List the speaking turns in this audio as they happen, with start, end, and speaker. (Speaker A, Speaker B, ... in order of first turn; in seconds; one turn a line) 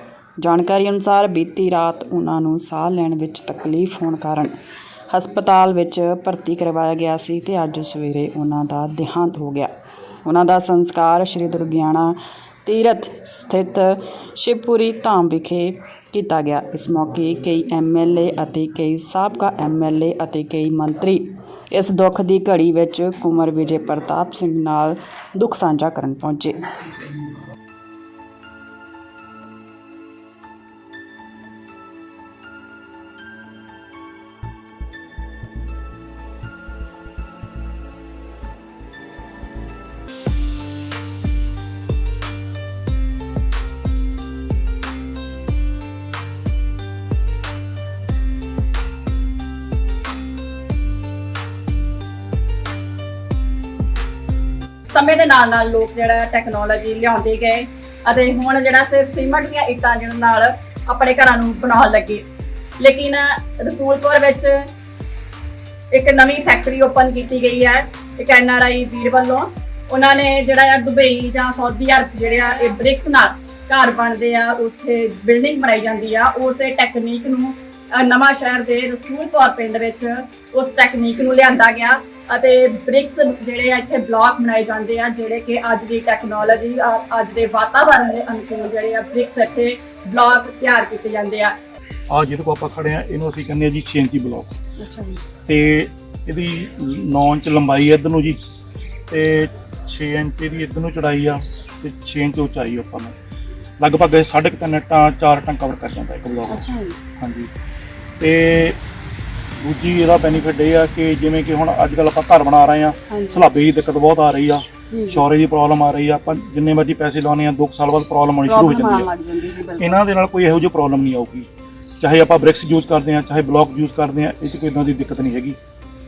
Speaker A: 0.4-4.5
Speaker A: 5.1-9.7
Speaker A: 10.2-26.7
Speaker B: 54.9-62.2
Speaker B: 62.8-64.7
Speaker B: 65.9-91.6
Speaker C: 92.1-94.5
Speaker B: 94.8-95.2
Speaker C: 95.5-98.4
Speaker C: 99.1-103.1
Speaker C: 103.8-106.7
Speaker B: 106.5-107.0
Speaker C: 107.2-107.5
Speaker C: 108.2-108.8
Speaker C: 109.6-119.1
Speaker B: 113.1-113.4
Speaker B: 114.9-115.2
Speaker B: 118.5-120.0
Speaker C: 119.8-121.5
Speaker C: 122.0-125.6